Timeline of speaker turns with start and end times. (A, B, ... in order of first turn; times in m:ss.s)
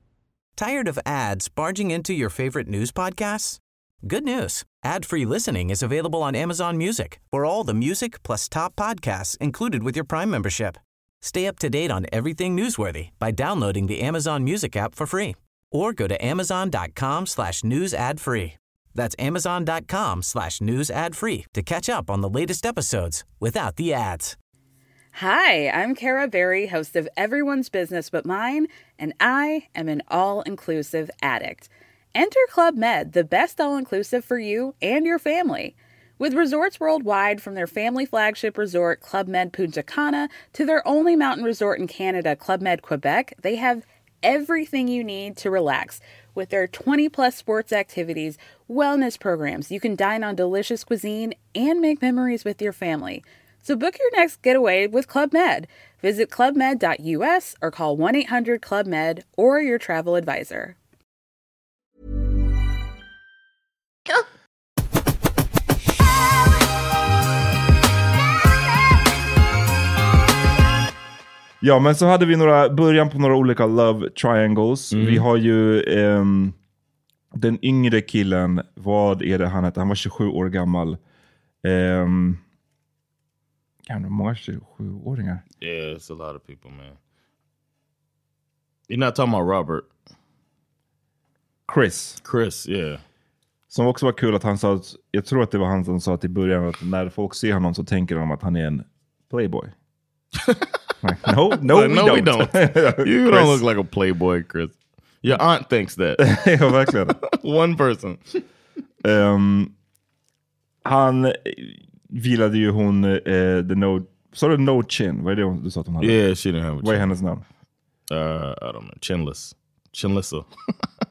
0:00.6-0:24.4 A
0:25.1-1:00.8 B
1:11.6-1:16.6 C
1:14.9-1:15.2 D
1:17.4-1:21.0 C
1:21.6-1:22.4 C
1:23.9-1:25.4 C
1:25.6-1:27.0 D
1:28.9-1:29.9 D
1:31.7-1:32.2 C
1:32.2-1:33.0 D
1:33.7-1:39.7 C
1:41.0-1:43.6 C
1:41.6-1:46.3 D
1:46.2-1:47.2 C
1:47.2-1:48.4 D
1:49.0-1:49.7 C
1:50.8-1:56.2 C
1:56.0-1:57.1 D
1:56.8-1:57.4 C
1:58.1-2:00.5 D